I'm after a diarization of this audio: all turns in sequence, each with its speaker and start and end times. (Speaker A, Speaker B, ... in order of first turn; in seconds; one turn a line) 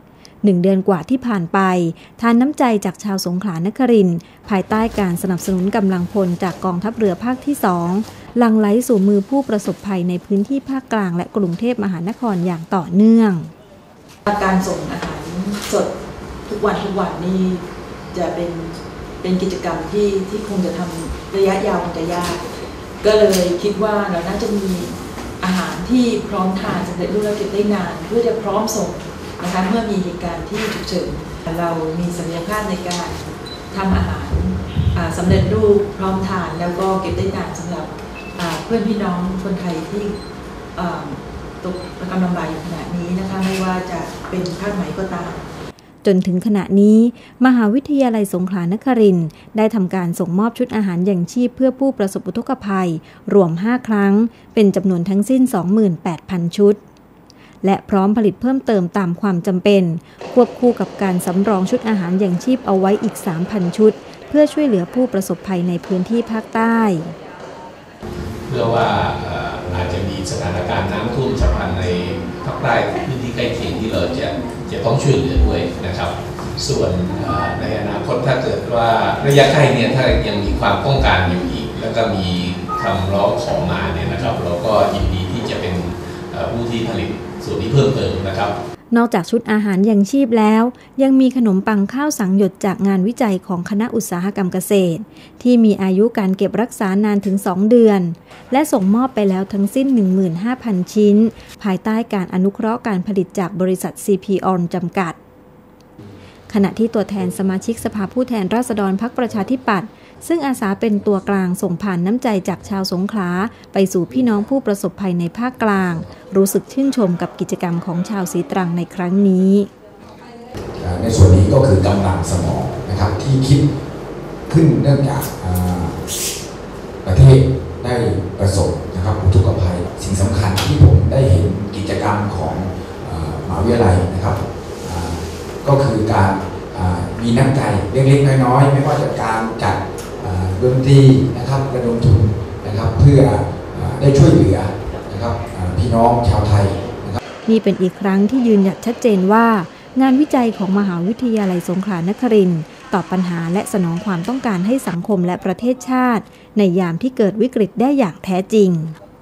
Speaker A: 0.4-13.5
Speaker B: 14.2-15.9
Speaker B: 16.5-22.4
Speaker B: 23.0-40.2
Speaker B: 40.7-45.5
Speaker A: 46.0-56.8
Speaker A: 57.6-67.1
Speaker C: 68.5-88.5
Speaker A: 88.9-105.2
Speaker A: 106.5-119.7
Speaker D: 120.8-123.7
Speaker D: 124.5-126.0
Speaker D: 127.0-147.2
Speaker A: 147.4-158.9